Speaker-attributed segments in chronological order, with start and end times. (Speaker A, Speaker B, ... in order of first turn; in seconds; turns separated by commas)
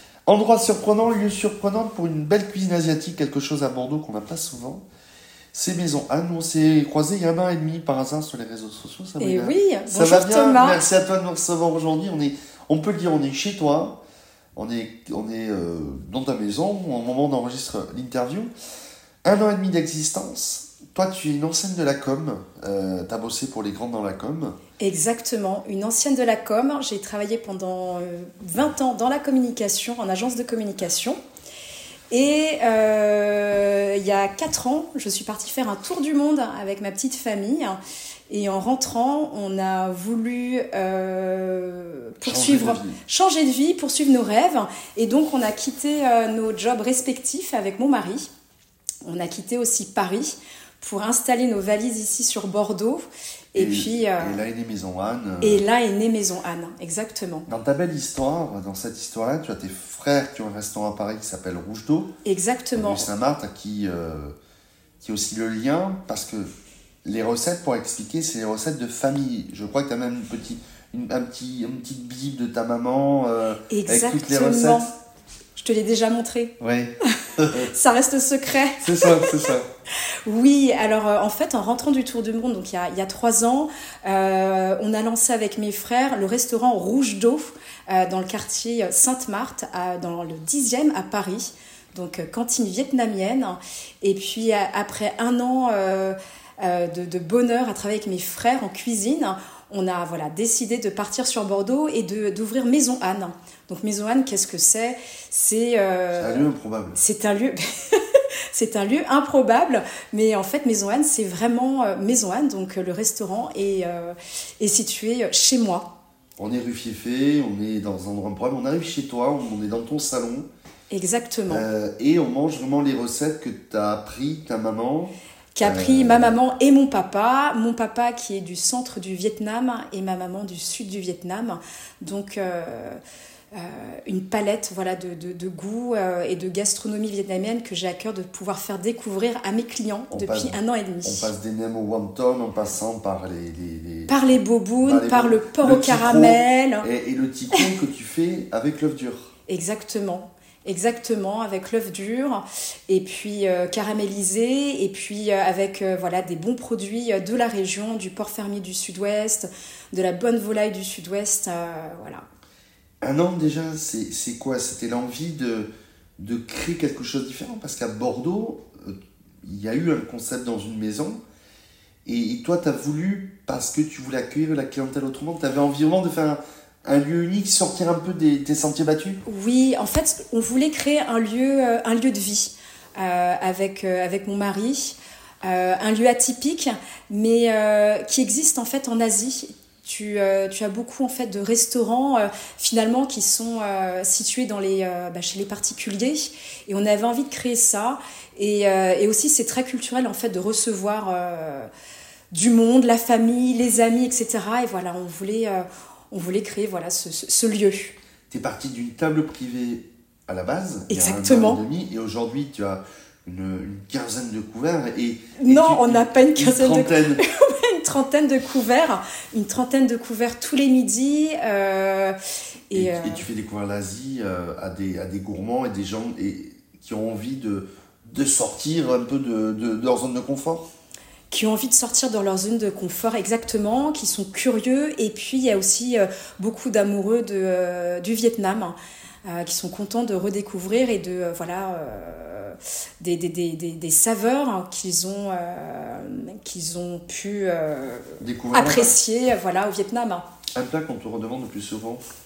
Speaker A: 0.2-4.8, Speaker A: 5.5-14.0, Speaker B: 9.2-10.8, Speaker A: 14.6-18.5, Speaker A: 19.2-24.6, Speaker B: 24.8-31.2, Speaker B: 32.1-48.3, Speaker A: 42.2-43.0, Speaker B: 49.0-54.4, Speaker A: 53.5-55.6, Speaker B: 55.4-57.5, Speaker A: 57.5-62.1, Speaker B: 62.2-63.0, Speaker A: 62.7-64.3, Speaker A: 65.0-66.5, Speaker A: 67.0-74.9, Speaker B: 73.7-74.9, Speaker B: 75.5-79.5, Speaker A: 76.6-77.7, Speaker A: 78.8-79.7, Speaker B: 80.2-115.8, Speaker A: 106.1-107.0, Speaker A: 116.4-120.5, Speaker B: 120.9-121.6, Speaker A: 121.5-126.3, Speaker B: 125.5-133.0, Speaker B: 133.5-141.3, Speaker A: 140.1-144.1, Speaker B: 144.1-146.9, Speaker A: 144.8-149.3, Speaker B: 149.5-162.2, Speaker A: 163.0-171.2, Speaker A: 172.1-179.2, Speaker B: 179.2-201.7, Speaker B: 202.3-207.9, Speaker A: 208.3-217.2, Speaker B: 210.9-211.6, Speaker B: 215.4-222.2, Speaker B: 222.7-223.2, Speaker A: 222.7-230.7, Speaker B: 231.3-250.2, Speaker A: 248.2-248.9, Speaker A: 250.5-252.0